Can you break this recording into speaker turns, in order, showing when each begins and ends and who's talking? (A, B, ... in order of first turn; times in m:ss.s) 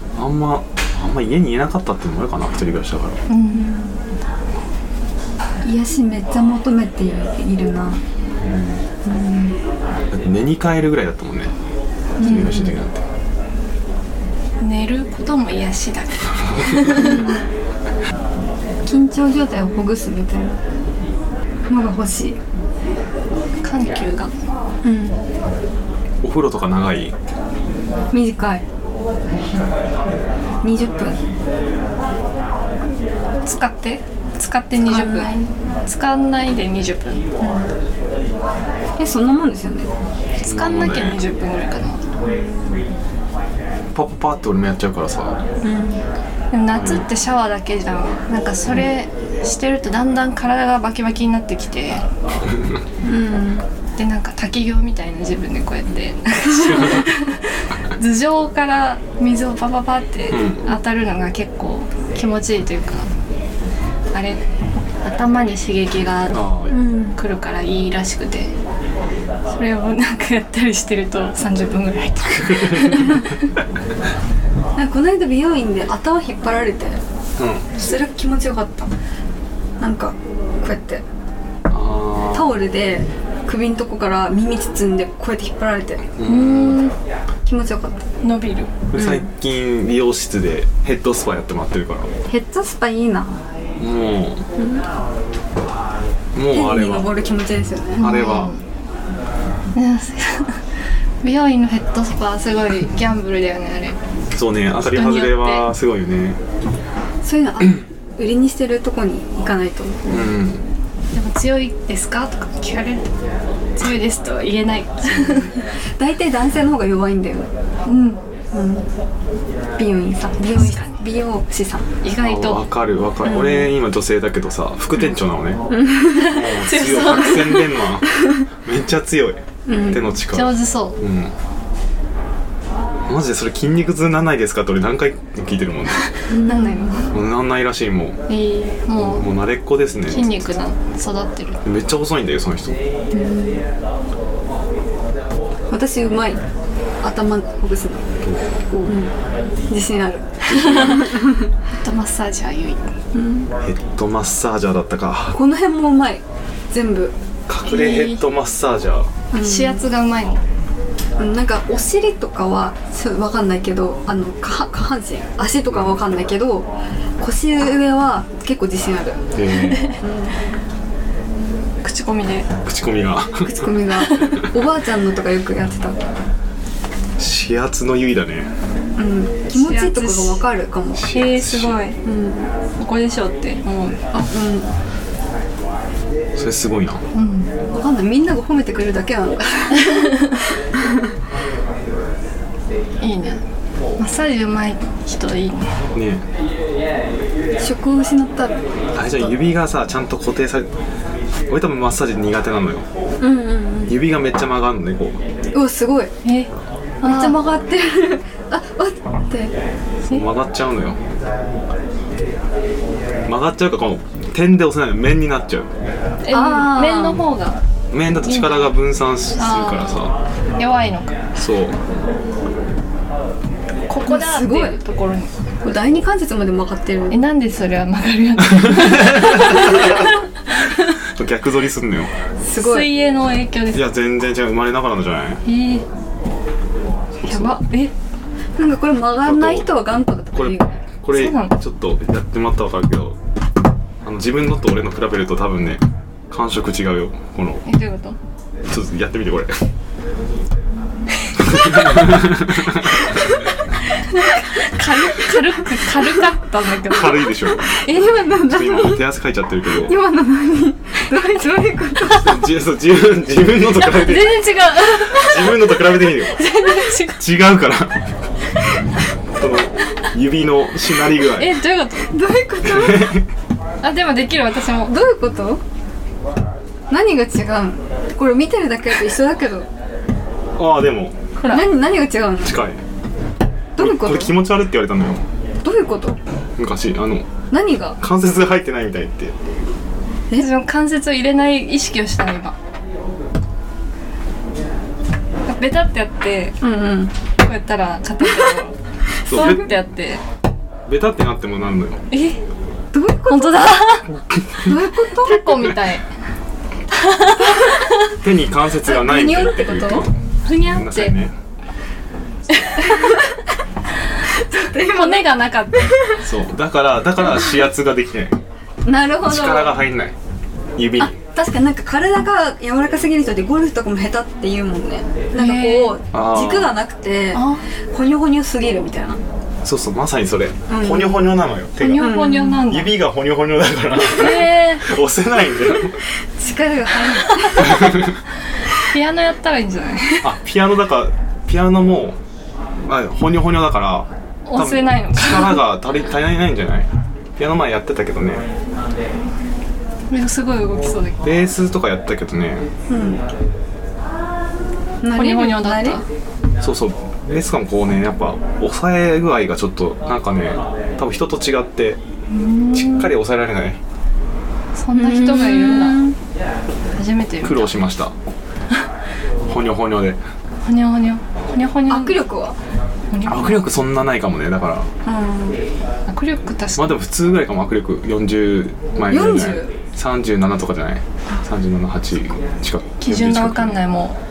0:00.2-0:03.2 A
0:03.3-0:03.7 B
0:03.5-0:04.0 C
0:05.6-0:08.0 C
0:08.4-0:08.8 A
0:09.0-0:09.6 C
0:10.1-0:11.5 A
0:12.2-0:12.8 C
0:12.2-0:12.7 B
0:12.2-0:13.1 A
0:14.6-0:17.2 B
0:16.9-0:17.4 C
0:18.8-0:20.6 C
0:21.7-0:22.4 C
0:23.6-0:24.4 B
0:24.8-0:25.2 C
0:26.2-0:27.1 A
0:28.1-0:28.6 C
0:30.6-0:31.2 C
0:33.4-0:37.2 B
0:34.8-0:35.4 C
0:37.4-0:37.7 C
0:39.0-0:39.9 C
0:40.4-0:42.0 B
0:40.4-0:41.2 A
0:42.3-0:42.8 C
0:43.9-0:45.4 A
0:45.6-0:46.0 C
0:46.5-0:52.0 B
0:46.7-0:47.0 A
0:53.0-0:53.7 C
0:54.0-1:03.1 B
1:00.3-1:00.6 A
1:04.1-1:04.4 B
1:05.0-1:06.4 B
1:06.3-1:06.7 A
1:06.7-1:07.2 C
1:07.2-1:08.5 B
1:09.5-1:13.5 B
1:12.5-1:12.9 A
1:14.8-1:17.0 C
1:17.4-1:17.7 A
1:17.8-1:18.9 C
1:19.8-1:21.0 C
1:21.7-1:22.6 A
1:22.3-1:26.0 C
1:26.2-1:26.8 A
1:26.2-1:26.9 B
1:27.4-1:28.0 C
1:28.2-1:28.7 B
1:28.9-1:32.1 A
1:28.9-1:29.2 C
1:32.2-1:33.4 C
1:33.8-1:34.4 A
1:34.6-1:34.8 C
1:36.3-1:37.1 A
1:36.5-1:38.0 C
1:38.0-1:38.5 A
1:38.0-1:38.6 B
1:39.7-1:40.6 B
1:41.2-1:44.0 B
1:44.3-1:46.4 A
1:44.7-1:45.7 B
1:47.2-1:50.2 C
1:50.1-1:50.6 A
1:51.1-1:53.0 B
1:53.8-1:55.6 B
1:55.0-1:55.5 A
1:56.0-1:58.9 C
1:59.8-2:01.8 C
2:00.5-2:01.0 B
2:02.0-2:02.6 B
2:02.2-2:05.6 A
2:03.2-2:03.7 C
2:05.7-2:06.3 C
2:06.1-2:07.8 B
2:06.2-2:11.3 A
2:09.7-2:10.0 C
2:10.3-2:11.0 B
2:13.1-2:16.1 A
2:16.3-2:17.2 B
2:16.3-2:16.9 C
2:17.1-2:18.2 A
2:18.3-2:19.3 B
2:19.0-2:20.4 A
2:20.0-2:21.6 B
2:21.6-2:22.8 A
2:23.1-2:23.6 C
2:25.7-2:26.4 C
2:27.0-2:28.1 C
2:28.2-2:28.5 A
2:28.7-2:29.1 C
2:29.7-2:31.4 C
2:30.4-2:31.1 A
2:30.5-2:31.1 B
2:31.8-2:32.9 B
2:33.1-2:33.5 C
2:33.6-2:35.4 A
2:35.3-2:37.1 C
2:37.5-2:39.1 A
2:37.6-2:38.2 B
2:39.3-2:39.8 C
2:39.4-2:40.4 B
2:41.2-2:49.2 C
2:49.3-2:49.8 A
2:49.5-2:50.0 B
2:49.9-2:50.4 C
2:51.8-2:52.5 B
2:52.6-2:53.4 A
2:53.4-2:56.0 C
2:54.0-2:54.4 B
2:57.2-2:58.5 A
2:59.0-3:01.1 C
2:59.5-3:00.4 B
3:00.9-3:01.8 A
3:01.1-3:02.0 B
3:02.0-3:02.5 C
3:02.8-3:04.0 B
3:04.1-3:04.7 C
3:06.4-3:07.0 A
3:07.1-3:07.5 B
3:07.7-3:11.0 C
3:09.9-3:10.3 B
3:13.0-3:13.4 B
3:14.0-3:15.8 B
3:15.9-3:16.2 A
3:17.6-3:19.3 C
3:18.9-3:20.7 A
3:21.5-3:22.8 A
3:23.2-3:24.0 C
3:23.9-3:25.2 A
3:25.5-3:26.1 C
3:26.2-3:26.5 B
3:27.0-3:27.4 B
3:27.0-3:29.5 C
3:30.1-3:31.0 A
3:33.3-3:35.7 A
3:36.2-3:37.6 B
3:36.3-3:37.2 C
3:37.9-3:40.1 A
3:38.2-3:38.7 B
3:39.4-3:41.2 B
3:41.4-3:41.8 A
3:43.9-3:45.3 B
3:44.0-3:44.8 C
3:45.6-3:47.2 C
3:47.1-3:50.9 B
3:51.1-3:52.1 A
3:52.4-3:52.9 C
3:52.5-3:53.9 B
3:53.7-3:55.4 A
3:55.4-3:55.8 B
3:57.2-3:57.6 A
3:57.2-3:57.9 B
3:58.6-4:00.8 C
3:59.2-3:59.7 A
4:00.3-4:03.2 A
4:01.1-4:01.6 B
4:04.0-4:07.6 A
4:07.6-4:08.2 B
4:08.7-4:09.6 A
4:11.5-4:11.8 B
4:11.5-4:13.2 A
4:13.9-4:18.3 B
4:14.6-4:15.4 C
4:16.8-4:17.7 A
4:17.6-4:19.0 C
4:18.4-4:19.9 A
4:19.8-4:22.5 C
4:21.1-4:21.4 B
4:22.0-4:26.5 A
4:23.8-4:27.2 B
4:27.1-4:28.0 A
4:29.3-4:31.5 A
4:31.3-4:32.2 B
4:32.1-4:33.2 C
4:32.7-4:33.2 A
4:33.8-4:35.0 B
4:34.8-4:35.6 C
4:36.9-4:39.7 C
4:40.6-4:41.3 A
4:41.4-4:41.6 B
4:41.4-4:42.6 C
4:42.4-4:42.8 A
4:43.8-4:44.4 C
4:43.8-4:45.2 A
4:45.6-4:46.2 C
4:46.6-4:47.3 A
4:47.5-4:48.0 C
4:48.0-4:49.3 A
4:50.4-4:52.6 B
4:55.5-4:56.6 B
4:56.6-4:57.1 C
4:57.4-5:00.2 B
4:59.3-4:59.7 A
5:00.9-5:02.0 A
5:02.1-5:02.4 B
5:02.9-5:03.9 C
5:03.3-5:04.1 B
5:04.6-5:05.7 C
5:05.1-5:06.0 B
5:06.9-5:07.9 B
5:08.2-5:10.1 A
5:08.8-5:10.1 C
5:10.4-5:11.2 B
5:10.7-5:11.3 A
5:12.5-5:13.3 B
5:12.9-5:13.3 C
5:14.2-5:16.2 C
5:14.8-5:16.0 B
5:16.1-5:18.4 A
5:18.8-5:19.8 C
5:19.2-5:20.1 A
5:20.8-5:21.1 A
5:21.0-5:29.2 C
5:25.4-5:26.0 B
5:26.1-5:26.8 A
5:27.3-5:27.6 B
5:29.6-5:32.1 A
5:30.7-5:31.4 C
5:31.8-5:33.0 B
5:31.9-5:32.6 C
5:32.7-5:36.0 A
5:34.1-5:34.8 B
5:36.3-5:38.0 C
5:37.4-5:37.7 B
5:38.8-5:40.3 B
5:40.2-5:42.2 A
5:42.9-5:48.4 A
5:44.4-5:45.6 B
5:50.1-5:51.4 B
5:51.2-5:52.7 A
5:52.9-5:53.2 C
5:55.0-5:56.0 C
5:55.1-5:56.0 B
5:56.6-6:02.0 A
6:02.3-6:03.1 B
6:02.7-6:03.8 A
6:04.7-6:06.0 B
6:04.9-6:06.2 C
6:07.0-6:07.7 B
6:07.4-6:08.1 A
6:09.5-6:10.2 A
6:10.6-6:12.2 B
6:11.9-6:12.6 C
6:13.1-6:13.6 B
6:13.2-6:14.9 A
6:15.0-6:15.6 C
6:16.1-6:17.0 B
6:16.8-6:23.7 A
6:19.1-6:19.7 C
6:23.0-6:24.2 B